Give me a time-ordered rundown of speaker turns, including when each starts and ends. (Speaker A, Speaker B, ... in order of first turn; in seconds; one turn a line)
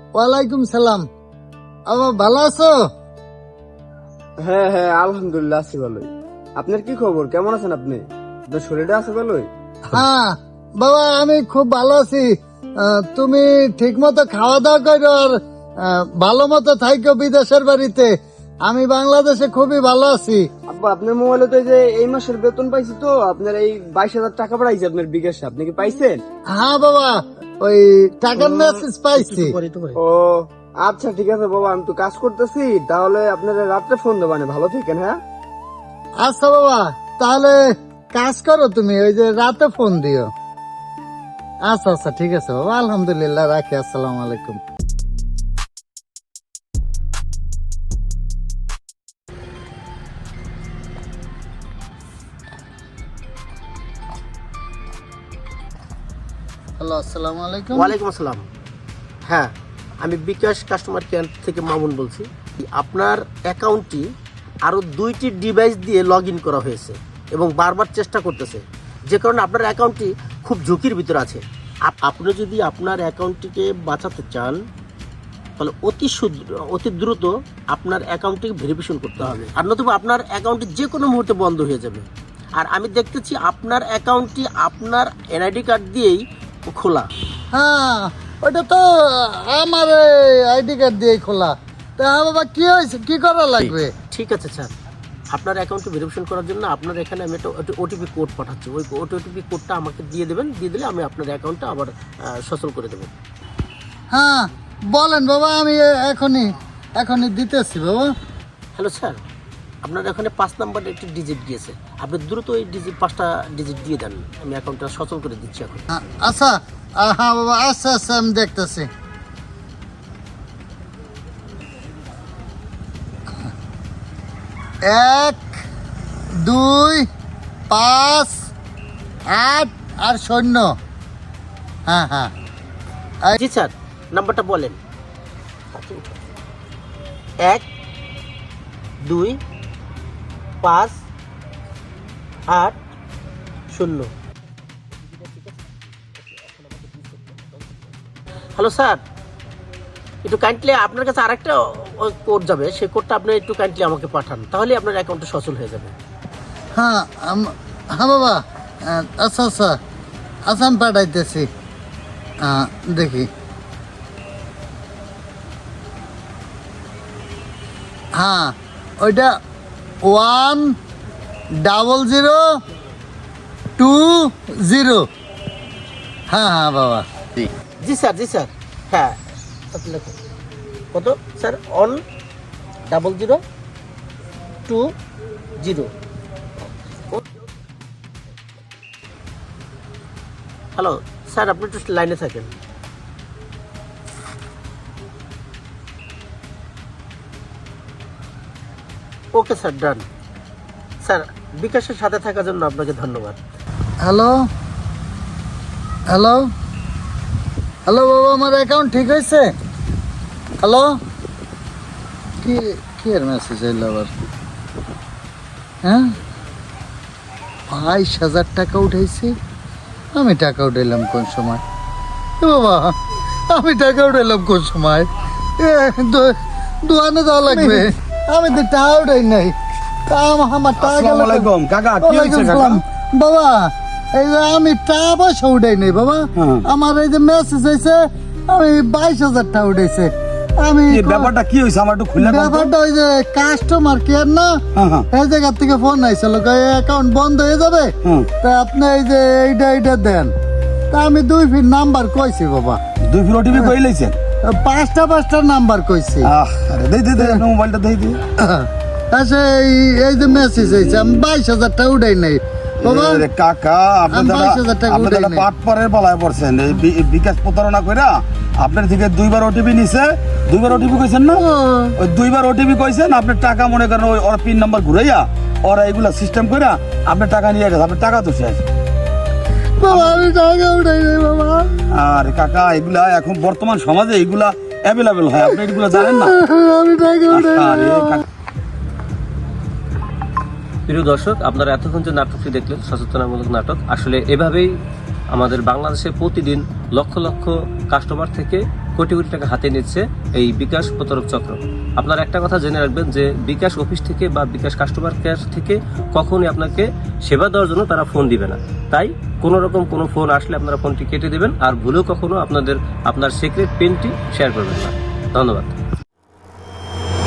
Speaker A: 0.1-1.0
Speaker A: 1.9-2.7
Speaker B: 4.4-9.5
Speaker A: 9.9-12.3
Speaker A: 12.8-18.1
Speaker A: 18.7-20.4
Speaker B: 20.7-26.2
Speaker A: 26.5-29.5
Speaker C: 28.4-30.0
Speaker B: 30.0-35.2
Speaker A: 36.2-37.6
Speaker A: 38.1-40.3
Speaker A: 41.7-44.6
Speaker A: 56.8-57.9
Speaker C: 57.7-58.5
Speaker C: 59.3-64.0
Speaker C: 64.6-74.6
Speaker C: 75.6-82.0
Speaker C: 82.6-87.1
Speaker A: 87.5-93.9
Speaker C: 94.1-94.7
Speaker C: 95.3-103.1
Speaker A: 104.1-108.1
Speaker C: 108.7-109.2
Speaker C: 109.8-115.8
Speaker A: 115.9-118.9
Speaker A: 124.9-125.6
Speaker A: 126.4-127.1
Speaker A: 127.7-128.4
Speaker A: 129.3-130.7
Speaker A: 131.9-132.3
Speaker C: 133.3-134.8
Speaker C: 135.7-136.2
Speaker C: 139.0-139.4
Speaker C: 140.6-141.0
Speaker C: 142.5-142.8
Speaker C: 143.7-144.1
Speaker C: 145.0-148.0
Speaker C: 148.6-149.0
Speaker C: 150.2-155.9
Speaker A: 156.8-159.8
Speaker A: 160.5-161.5
Speaker A: 162.4-163.3
Speaker A: 168.2-169.3
Speaker A: 170.1-170.8
Speaker A: 171.6-172.4
Speaker A: 173.8-175.0
Speaker A: 176.3-177.1
Speaker C: 177.8-179.2
Speaker C: 179.7-180.1
Speaker C: 180.9-182.0
Speaker C: 182.9-183.4
Speaker C: 184.7-184.9
Speaker C: 185.6-185.9
Speaker C: 190.7-192.5
Speaker C: 199.3-200.0
Speaker C: 201.0-203.4
Speaker A: 204.0-204.3
Speaker A: 206.1-206.4
Speaker A: 207.9-209.5
Speaker A: 210.6-210.9
Speaker A: 212.4-214.1
Speaker A: 215.8-216.1
Speaker A: 217.7-219.3
Speaker A: 220.1-221.6
Speaker A: 222.4-222.9
Speaker A: 223.5-229.5
Speaker A: 230.1-241.3
Speaker D: 230.8-232.8
Speaker D: 236.4-236.7
Speaker D: 240.9-242.7
Speaker A: 242.2-244.6
Speaker D: 244.8-245.1
Speaker A: 245.1-250.3
Speaker A: 250.9-252.8
Speaker D: 253.1-254.2
Speaker A: 254.5-256.3
Speaker D: 256.2-258.2
Speaker A: 258.4-263.2
Speaker D: 262.8-271.4
Speaker A: 264.1-265.5
Speaker A: 271.4-271.9
Speaker D: 272.0-278.6
Speaker A: 279.8-281.7
Speaker D: 279.9-280.2
Speaker D: 281.9-286.3
Speaker A: 286.0-288.2
Speaker D: 287.3-288.2
Speaker E: 290.9-294.7
Speaker E: 295.3-315.7